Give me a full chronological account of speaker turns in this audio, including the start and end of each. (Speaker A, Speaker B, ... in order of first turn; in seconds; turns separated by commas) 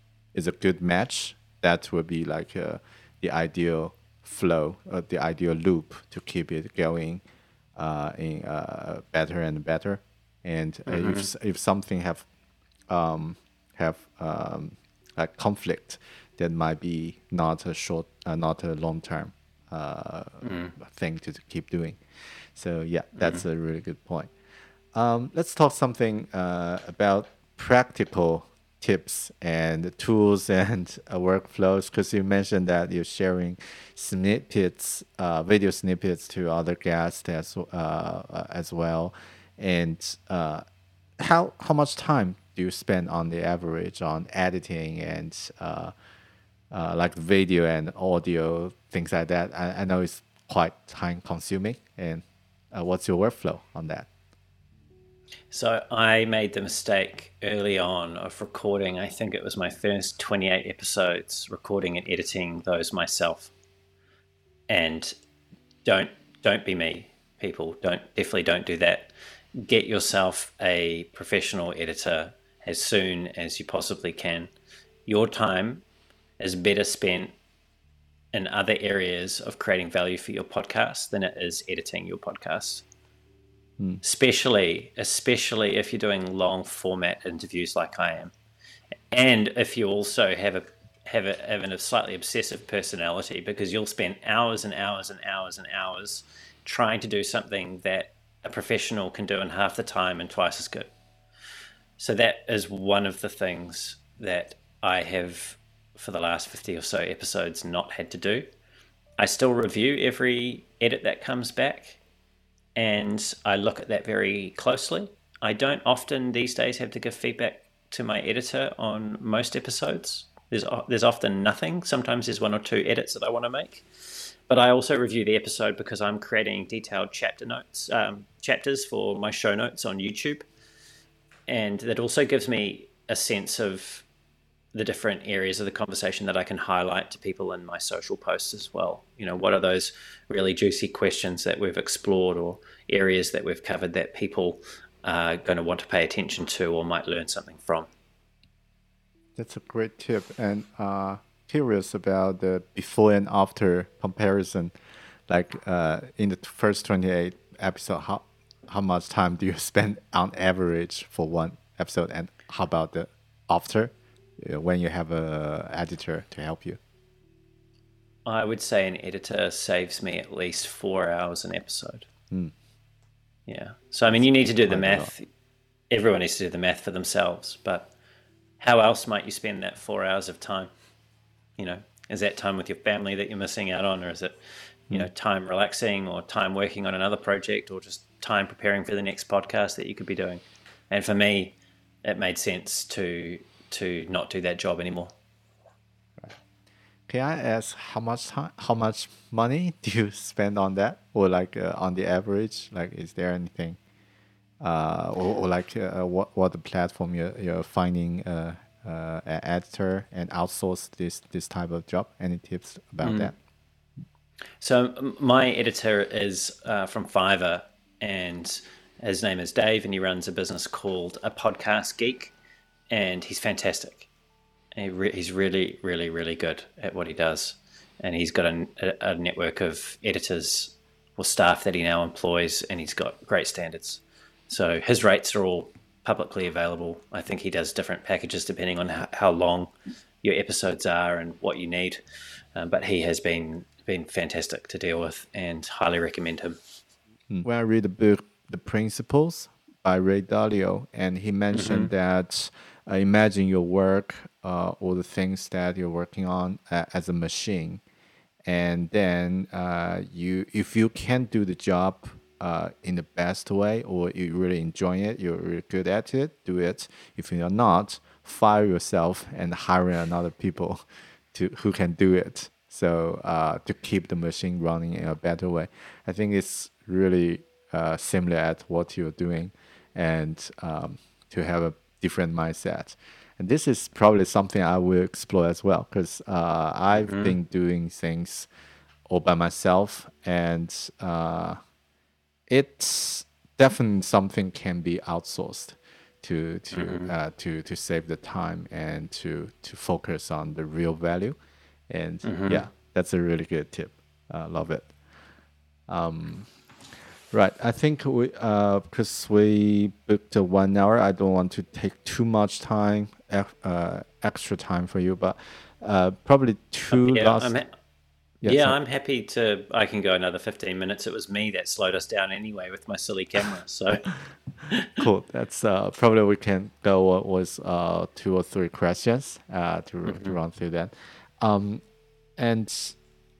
Speaker A: 0.3-7.2, Speaker A: 7.8-12.2, Speaker B: 10.9-11.3, Speaker A: 12.9-22.0, Speaker B: 20.4-20.7, Speaker A: 22.5-24.3, Speaker A: 24.9-40.6, Speaker A: 41.2-45.9, Speaker A: 46.7-54.1, Speaker B: 55.5-63.5, Speaker B: 64.7-65.1, Speaker B: 65.8-74.5, Speaker B: 75.1-75.8, Speaker B: 76.4-77.3, Speaker B: 78.3-82.8, Speaker B: 84.0-88.3, Speaker B: 89.1-100.9, Speaker B: 102.0-108.5, Speaker B: 109.2-112.0, Speaker B: 112.8-130.4, Speaker B: 131.5-134.0, Speaker B: 134.7-147.9, Speaker A: 149.4-154.7, Speaker A: 155.3-166.8, Speaker B: 168.2-172.1, Speaker B: 173.5-175.3, Speaker A: 174.1-175.1, Speaker B: 175.9-177.9, Speaker B: 178.6-180.7, Speaker B: 181.6-184.3, Speaker B: 184.9-195.1, Speaker A: 197.1-203.8, Speaker A: 204.6-213.3, Speaker B: 213.0-213.3, Speaker B: 214.6-222.3, Speaker B: 222.9-224.1, Speaker B: 224.8-239.7, Speaker B: 240.2-242.0, Speaker B: 242.5-246.6, Speaker A: 247.3-257.8, Speaker B: 251.5-251.9, Speaker A: 258.4-288.5, Speaker B: 286.9-287.4, Speaker A: 289.1-291.6, Speaker A: 292.5-301.4, Speaker B: 296.7-297.1, Speaker A: 301.9-304.9, Speaker B: 302.2-302.6, Speaker A: 305.9-306.5, Speaker A: 307.3-317.5, Speaker B: 316.9-317.7, Speaker A: 318.4-318.8, Speaker B: 318.4-324.1, Speaker B: 324.7-325.0, Speaker A: 325.0-331.8, Speaker B: 330.1-330.4, Speaker A: 332.4-332.9